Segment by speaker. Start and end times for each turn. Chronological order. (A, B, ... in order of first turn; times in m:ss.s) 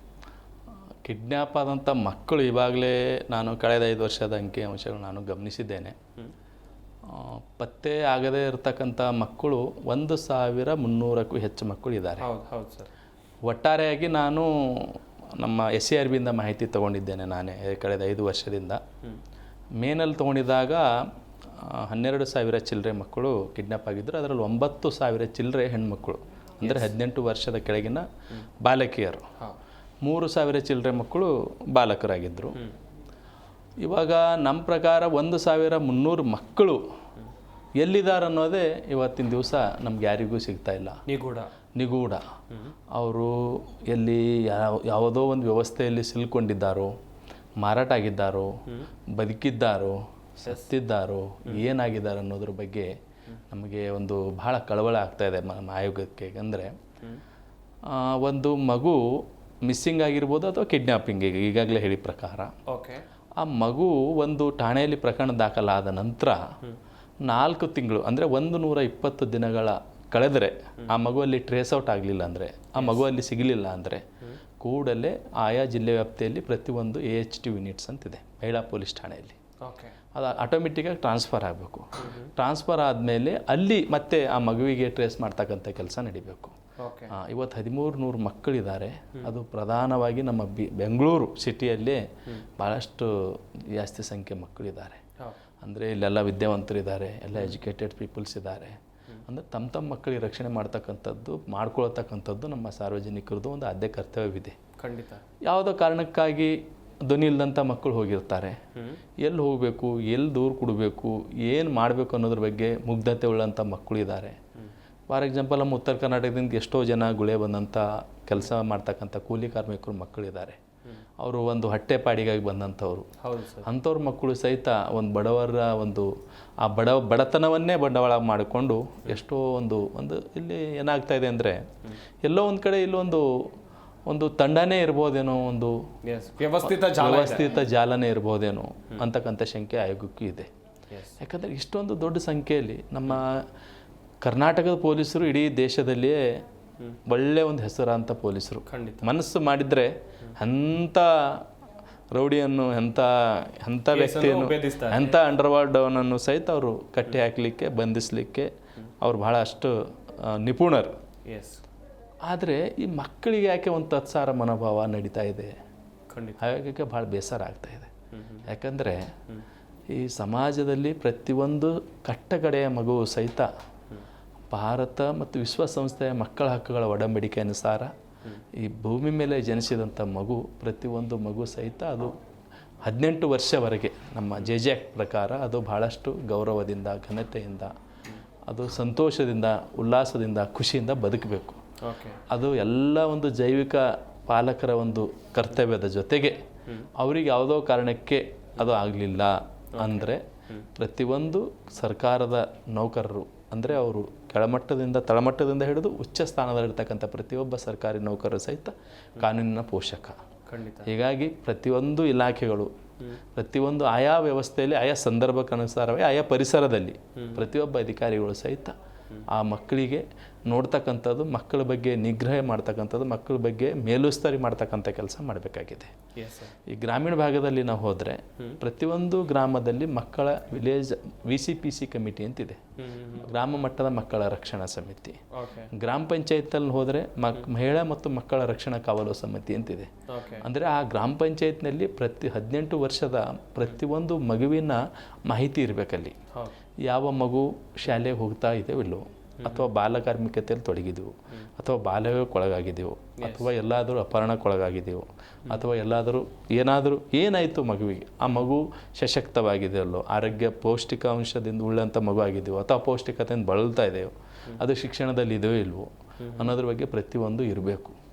0:01.0-0:06.0 A
0:07.1-0:12.3 A
0:12.2-0:12.9 B
0:13.5-0:18.8 A
0:19.8-0:20.9 A
0:21.6-0:28.0 A
0:26.6-0:26.9 B
0:28.6-0:29.3 A
0:30.0-0:32.6 A
0:33.8-0:36.8 A
0:37.8-0:41.0 A
0:41.1-0:41.5 B
0:41.8-0:42.2 A
0:42.9-0:46.9 A
0:47.6-0:48.6 A
0:49.1-0:52.9 A
0:53.5-0:56.8 A
0:57.8-1:02.5 A
1:02.7-1:03.0 B
1:03.4-1:06.4 A
1:07.2-1:14.0 A
1:12.8-1:13.1 B
1:14.6-1:19.4 A
1:19.6-1:19.9 B
1:20.2-1:26.6 A
1:22.0-1:22.3 B
1:26.8-1:27.1 B
1:27.1-1:32.0 A
1:32.6-1:35.0 A
1:35.6-1:44.6 A
1:44.8-1:45.2 B
1:45.4-1:48.6 A
1:49.2-1:54.4 A
1:55.1-2:00.6 A
2:01.2-2:03.1 A
2:03.2-2:03.7 B
2:03.6-2:06.1 A
2:06.6-2:11.6 A
2:12.2-2:13.5 A
2:14.1-2:15.8 A
2:16.0-2:17.6 B
2:16.6-2:20.5 A
2:20.9-2:21.2 B
2:21.2-2:23.4 A
2:24.2-2:26.4 A
2:27.1-2:31.4 A
2:28.7-2:29.1 B
2:32.1-2:38.5 A
2:33.9-2:35.2 B
2:39.0-2:40.9 A
2:41.3-2:41.6 B
2:42.3-2:45.5 A
2:46.1-2:46.4 B
2:46.4-2:47.9 A
2:48.1-2:48.5 B
2:48.5-2:49.1 A
2:49.9-2:53.5 A
2:54.5-2:57.9 A
2:58.5-3:02.1 A
3:02.8-3:07.7 A
3:08.5-3:11.6 A
3:11.8-3:12.2 B
3:12.3-3:16.4 A
3:17.0-3:20.2 A
3:19.8-3:20.7 B
3:20.8-3:30.2 A
3:30.5-3:30.9 B
3:30.9-3:32.7 A
3:33.4-3:38.8 A
3:37.2-3:37.4 B
3:39.3-3:45.9 A
3:46.2-3:46.6 B
3:46.7-3:52.6 A
3:52.8-3:53.3 B
3:53.2-3:55.2 A
3:55.3-3:55.7 B
3:55.7-3:59.9 A
4:00.1-4:00.4 B
4:00.4-4:06.2 A
4:06.9-4:28.0 A
4:09.4-4:09.7 B
4:13.2-4:13.5 B
4:26.2-4:26.5 B